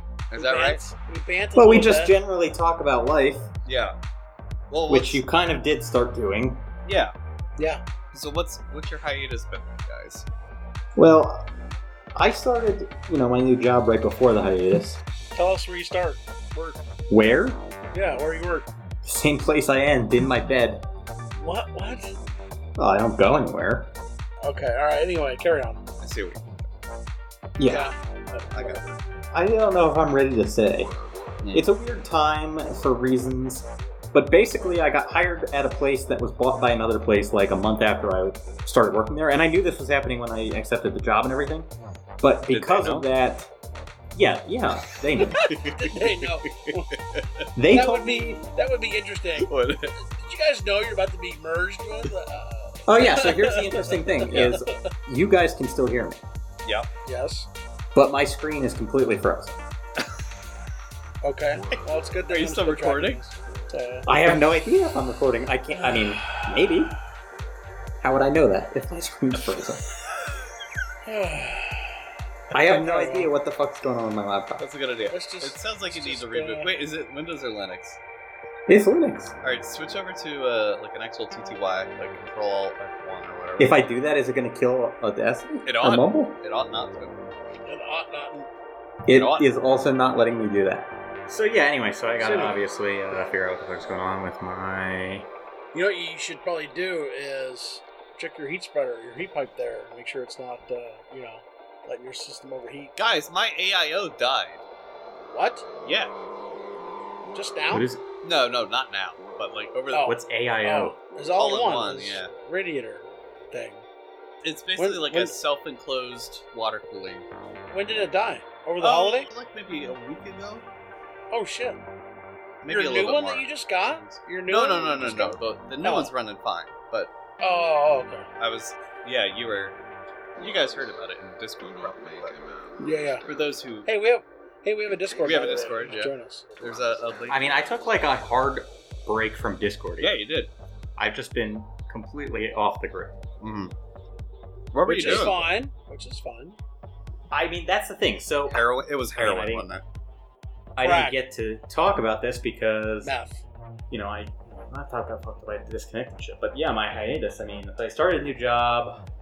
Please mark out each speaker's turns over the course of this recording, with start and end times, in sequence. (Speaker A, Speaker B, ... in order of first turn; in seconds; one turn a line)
Speaker A: 0.3-0.8
Speaker B: 0.3-2.1
Speaker C: 1.6-3.5
Speaker A: 3.6-4.0
Speaker A: 4.7-5.2
Speaker C: 4.9-6.6
Speaker A: 6.8-7.2
Speaker B: 7.6-7.8
Speaker A: 8.1-10.3
Speaker C: 11.0-11.5
Speaker C: 12.2-15.0
Speaker B: 15.3-16.8
Speaker C: 17.1-17.6
Speaker B: 17.9-18.7
Speaker C: 19.0-20.9
Speaker B: 21.4-22.2
Speaker C: 22.8-23.9
Speaker B: 24.4-25.8
Speaker A: 26.0-26.8
Speaker C: 27.6-27.9
Speaker B: 27.7-28.0
Speaker A: 28.5-29.0
Speaker C: 29.3-30.9
Speaker A: 31.4-31.7
Speaker C: 31.5-41.7
Speaker C: 42.2-43.5
Speaker A: 42.5-43.1
Speaker C: 44.1-45.5
Speaker B: 45.2-46.9
Speaker A: 45.4-47.5
Speaker C: 47.6-48.4
Speaker B: 47.7-54.8
Speaker A: 49.4-50.0
Speaker C: 52.9-56.2
Speaker B: 57.1-57.5
Speaker C: 57.9-59.6
Speaker B: 61.2-64.4
Speaker A: 61.7-63.2
Speaker C: 64.1-67.0
Speaker B: 65.7-66.4
Speaker C: 68.0-69.9
Speaker B: 71.0-72.0
Speaker C: 72.5-74.6
Speaker B: 72.5-73.3
Speaker A: 74.6-78.0
Speaker B: 75.1-76.7
Speaker C: 78.7-79.3
Speaker A: 79.4-83.8
Speaker C: 83.6-86.4
Speaker A: 85.7-87.3
Speaker B: 87.7-88.5
Speaker C: 89.1-95.3
Speaker A: 89.1-89.5
Speaker B: 92.2-92.5
Speaker B: 95.7-102.9
Speaker A: 103.0-104.6
Speaker B: 105.3-105.7
Speaker A: 105.8-106.2
Speaker B: 107.3-107.9
Speaker C: 107.7-108.0
Speaker A: 108.2-110.1
Speaker B: 109.9-113.8
Speaker C: 110.0-111.0
Speaker A: 111.4-112.3
Speaker A: 114.4-117.3
Speaker B: 114.8-115.3
Speaker B: 117.7-119.3
Speaker A: 118.8-120.7
Speaker B: 121.3-121.8
Speaker A: 122.6-127.1
Speaker B: 122.7-126.1
Speaker B: 127.4-128.3
Speaker A: 128.4-129.8
Speaker A: 130.4-132.6
Speaker B: 132.8-133.2
Speaker A: 133.2-133.9
Speaker B: 133.9-136.6
Speaker A: 135.2-137.4
Speaker C: 137.3-140.2
Speaker A: 140.0-140.5
Speaker C: 141.0-143.2
Speaker A: 143.4-143.7
Speaker A: 144.7-145.4
Speaker B: 144.9-146.6
Speaker C: 145.0-145.4
Speaker C: 147.3-149.7
Speaker A: 148.5-149.8
Speaker C: 150.8-153.1
Speaker B: 150.8-151.2
Speaker B: 153.0-153.4
Speaker C: 153.9-159.0